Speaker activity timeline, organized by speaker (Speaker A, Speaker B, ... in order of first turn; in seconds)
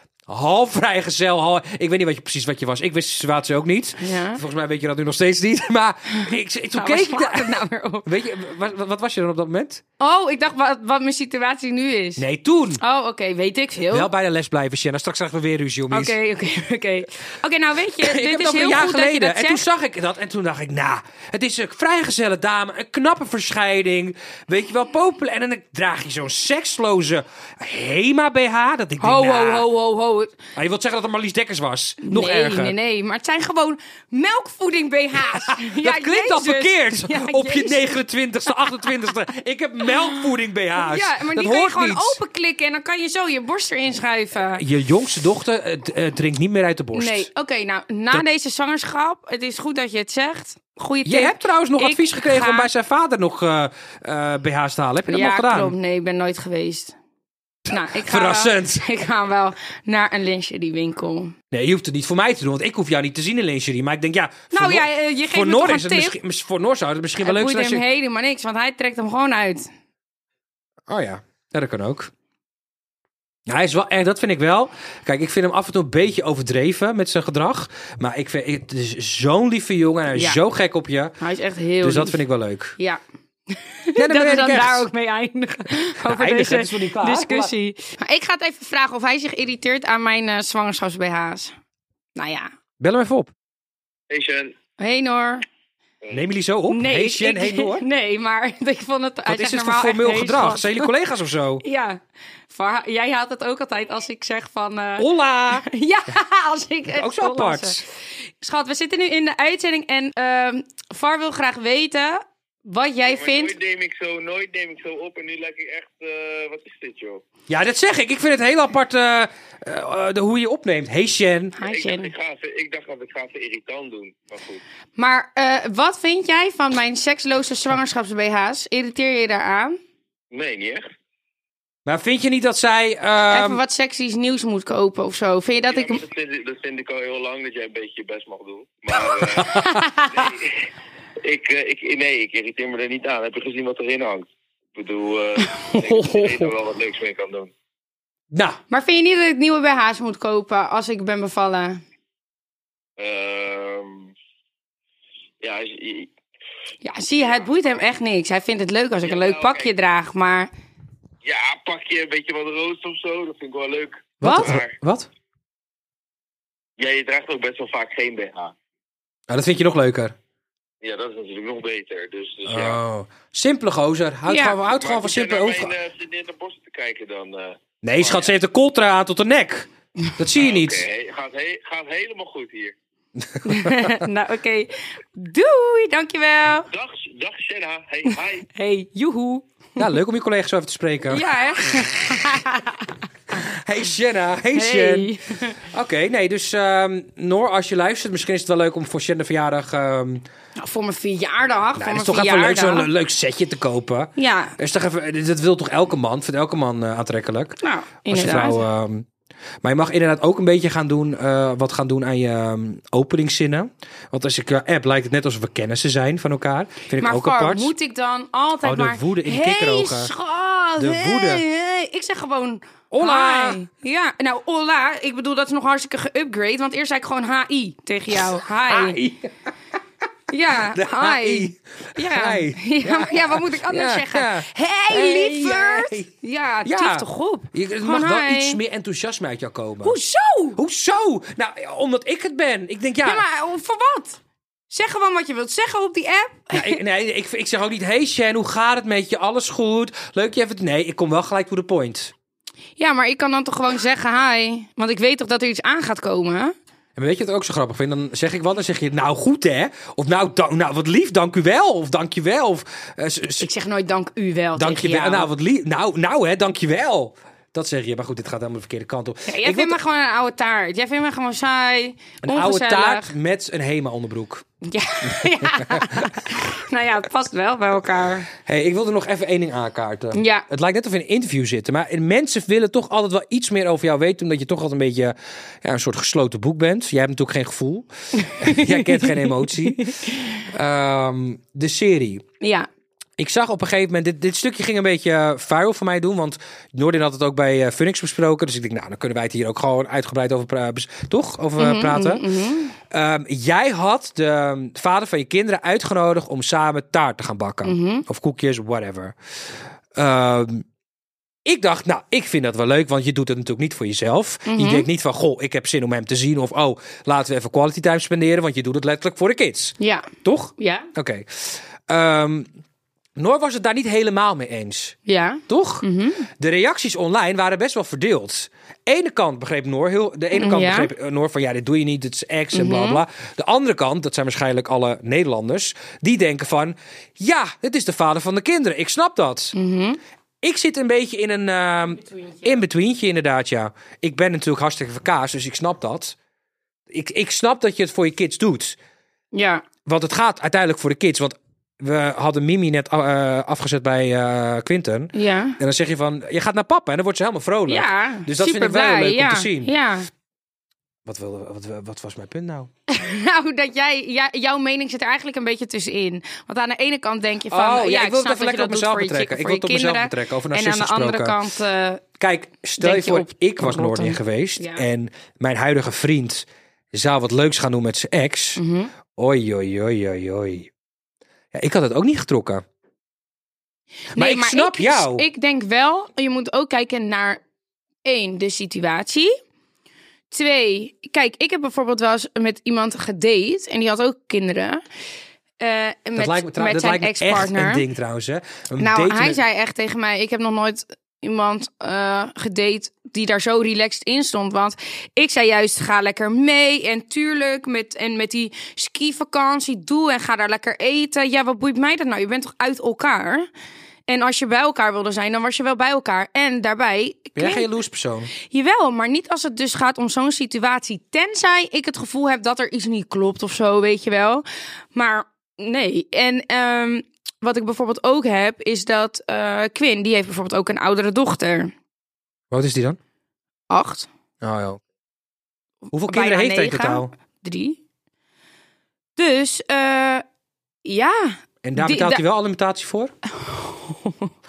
Speaker A: 0.3-9.8, 12.2-12.8, 13.9-16.2, 18.0-29.7, 30.6-32.8, 35.3-42.2, 44.5-47.3, 51.0-55.8, 57.7-58.8, 61.5-67.8, 70.9-72.1, 73.5-81.2, 81.8-82.8, 84.0-84.9, 86.0-87.5, 92.8-93.3, 96.1-97.8, 99.3-101.6, 105.0-105.7, 106.9-107.8, 117.5-121.6, 131.9-133.6, 139.2-139.9, 148.3-148.6, 164.2-165.1, 169.3-170.2, 172.5-175.8, 177.8-180.8, 183.2-184.0, 189.8-191.2, 193.3-195.1, 195.6-200.3, 201.8-209.1, 209.6-217.7, 218.6-220.1, 220.8-221.4, 222.9-223.6, 228.7-229.3, 230.7-236.1, 236.6-240.0, 240.6-243.2, 246.5-252.1, 257.0-263.5, 264.6-269.8, 272.2-274.4, 275.1-276.1, 278.4-289.9, 290.5-292.2, 293.2-302.2, 302.9-309.1, 309.9-310.6, 311.4-322.5, 323.2-325.0, 325.5-339.5, 340.4-346.2, 346.9-348.8, 349.9-359.7, 361.1-362.7, 367.5-371.4, 372.2-378.6, 379.1-380.7, 381.5-382.6, 384.1-385.3, 396.2-399.4, 417.4-418.3, 432.5-433.0, 434.4-434.8, 435.9-437.1, 441.6-443.1
Speaker B: 4.0-4.4, 6.7-8.1, 10.0-12.2, 12.8-14.1, 15.9-19.6, 29.0-30.4, 32.0-37.9, 38.6-39.1, 39.9-40.2, 40.8-44.6, 46.9-52.7, 55.1-57.0, 57.7-61.4, 64.5-66.2, 67.2-69.7, 80.1-80.4, 81.2-82.2, 83.5-91.5, 92.2-92.5, 94.8-95.5, 96.7-100.9, 101.6-107.8, 108.4-113.6, 121.6-122.1, 125.0-129.8, 133.3-136.0, 139.6-140.1, 145.6-146.3, 148.7-151.8, 156.8-160.5, 164.2-164.5, 174.3-174.6, 183.4-186.7, 188.1-189.9, 191.1-193.0, 194.5-195.6, 200.6-202.9, 204.2-204.6, 207.6-208.6, 217.0-229.0, 230.3-238.6, 239.8-240.6, 243.0-244.2, 244.7-246.8, 252.8-256.5, 263.4-265.3, 269.3-273.1, 274.6-278.3, 280.1-280.5, 288.2-290.4, 292.4-292.7, 301.6-302.8, 307.6-308.1, 314.5-314.9, 319.8-320.9, 325.1-326.3, 330.3-330.9, 332.5-333.0, 339.5-340.0, 349.3-349.7, 355.1-355.6, 357.7-360.1, 362.9-372.0, 372.8-374.9, 378.6-378.9, 384.1-387.4, 388.1-389.3, 390.3-394.8, 395.6-397.9, 398.8-413.5, 414.1-417.7, 418.4-431.7, 433.7-434.1, 436.0-437.8, 439.2-440.2, 440.9-442.2, 443.4-444.3
Speaker C: 94.1-94.5, 113.1-117.2, 121.6-124.6, 130.3-130.8, 135.7-140.7, 141.2-147.5, 153.0-154.1, 155.4-156.1, 159.1-159.7, 161.2-164.7, 166.8-168.5, 170.8-172.8, 174.7-178.3, 180.4-182.7, 186.7-188.4